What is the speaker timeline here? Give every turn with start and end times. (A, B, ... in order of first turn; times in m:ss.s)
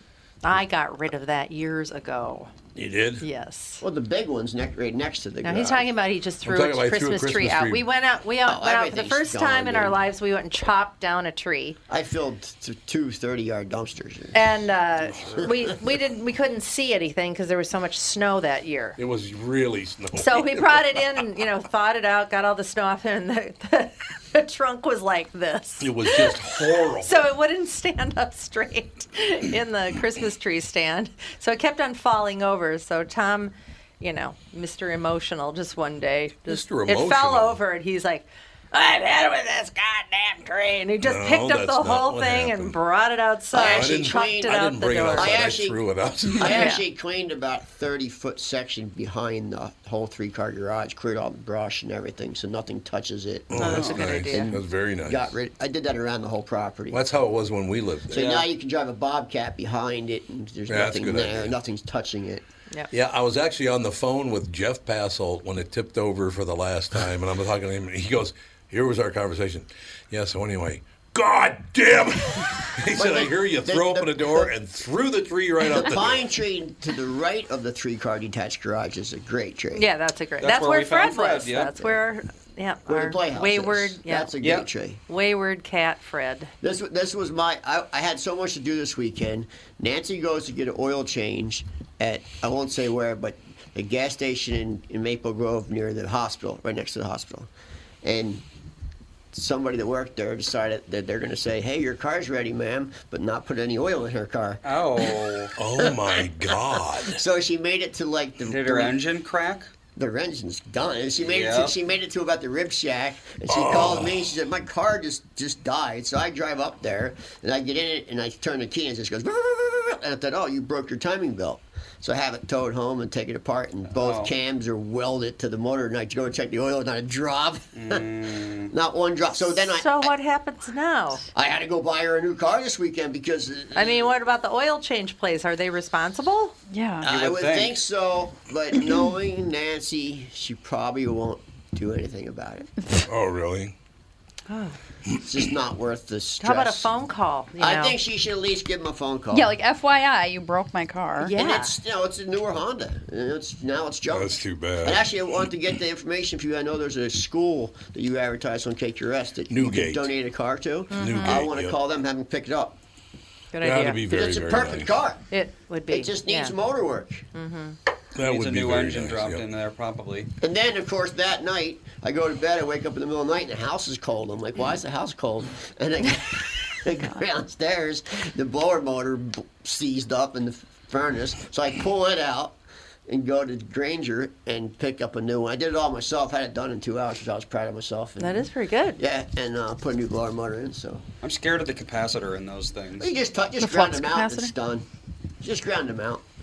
0:00.4-0:02.5 A
0:02.8-0:03.2 B
0:03.2-0:03.8 A
0:03.8-0:05.9 C
0:05.4-0:11.8 A
0:06.4-0:07.8 B
0:08.4-0:09.9 C
0:11.9-0:14.4 C
0:14.3-0:19.0 A
0:19.0-0:21.0 B
0:20.1-0:45.5 A
0:25.8-0:27.2 B
0:36.5-0:37.6 B
0:41.0-0:42.8 B
0:43.5-0:53.8 C
0:43.6-0:46.6 B
0:46.4-0:46.8 A
0:53.5-0:55.3 B
0:53.6-0:54.6 A
0:53.7-0:54.0 D
0:54.3-0:57.0 C
0:56.9-0:58.1 B
0:58.1-0:58.5 D
0:58.1-1:02.4 C
1:00.7-1:01.6 B
1:02.9-1:16.4 B
1:12.9-1:14.5 C
1:15.6-1:19.8 C
1:19.7-1:24.3 A
1:20.4-1:21.8 D
1:22.9-1:25.0 C
1:24.4-1:24.7 D
1:25.1-1:26.5 A
1:26.6-1:37.5 C
1:38.0-1:38.4 C
1:39.3-1:45.1 C
1:44.6-1:45.5 D
1:45.6-1:47.2 B
1:45.8-1:48.9 C
1:48.4-1:49.7 D
1:49.9-2:10.1 C
1:51.2-1:51.8 D
1:53.5-1:54.3 B
2:03.9-2:04.3 D
2:07.7-2:08.7 D
2:09.4-2:11.2 A
2:11.3-2:14.1 C
2:13.7-2:16.5 A
2:16.7-2:17.0 E
2:17.0-2:22.7 C
2:17.0-2:17.8 D
2:23.1-2:23.7 B
2:24.5-2:24.8 A
2:25.2-2:26.9 C
2:26.4-2:28.0 A
2:27.6-2:29.5 C
2:29.3-2:31.4 E
2:31.2-2:31.8 A
2:31.3-2:42.8 C
2:34.1-2:35.1 B
2:39.5-2:40.1 B
2:40.9-2:41.5 A
2:40.9-2:41.7 B
2:43.5-2:44.6 A
2:43.6-2:45.0 B
2:44.1-2:45.2 C
2:45.3-2:46.5 A
2:45.9-2:47.2 C
2:47.3-2:47.8 A
2:48.2-2:49.4 B
2:48.2-2:50.3 D
2:50.4-3:08.4 C
3:08.2-3:09.0 A
3:09.0-3:11.0 C
3:11.2-3:13.2 D
3:13.0-3:14.8 C
3:13.6-3:14.5 E
3:15.4-3:16.2 C